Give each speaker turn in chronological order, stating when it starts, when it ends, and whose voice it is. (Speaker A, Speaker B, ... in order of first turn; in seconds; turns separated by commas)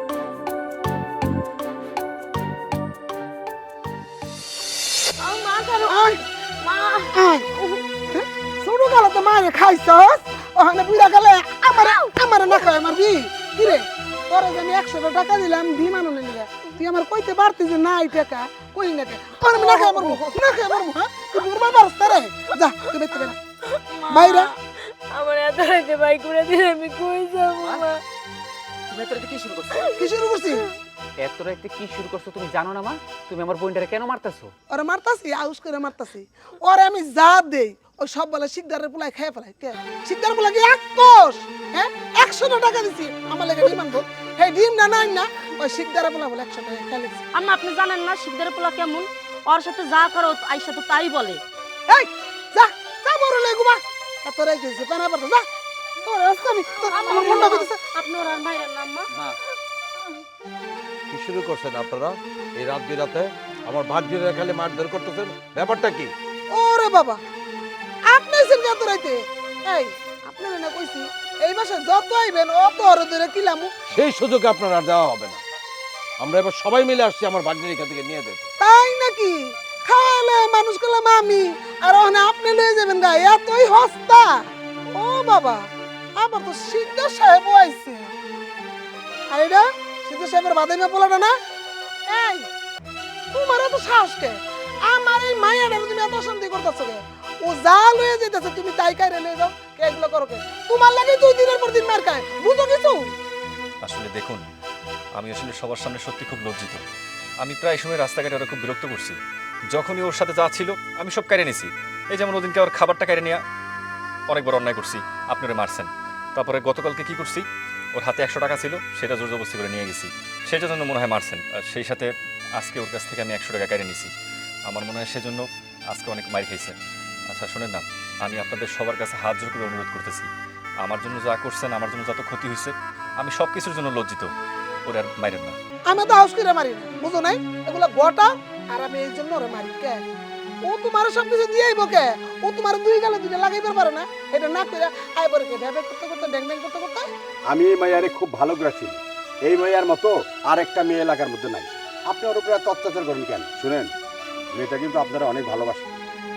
Speaker A: 5.2-7.8, Speaker B: 5.9-6.2, Speaker B: 7.1-7.5, Speaker B: 8.1-23.4, Speaker A: 11.7-12.2, Speaker A: 19.4-20.3, Speaker A: 23.7-28.0, Speaker B: 24.1-24.5, Speaker C: 28.9-29.9, Speaker B: 30.0-30.6, Speaker C: 31.2-34.5, Speaker B: 34.7-47.2, Speaker D: 47.3-51.4, Speaker B: 51.9-55.5, Speaker B: 56.0-57.8, Speaker D: 56.9-59.1, Speaker E: 61.1-66.1, Speaker B: 66.5-67.2, Speaker B: 68.1-73.7, Speaker E: 73.9-75.4, Speaker E: 76.2-78.5, Speaker B: 78.6-88.1, Speaker B: 89.3-91.3, Speaker B: 92.1-92.5, Speaker B: 93.3-103.1, Speaker F: 103.8-104.4, Speaker F: 105.2-106.8, Speaker F: 107.4-109.2, Speaker F: 109.7-113.4, Speaker F: 114.3-124.1, Speaker F: 124.7-126.8, Speaker F: 127.3-130.3, Speaker F: 130.8-134.3, Speaker F: 134.9-135.6, Speaker B: 135.9-140.0, Speaker B: 140.6-147.1, Speaker G: 147.5-153.9, Speaker G: 154.6-155.9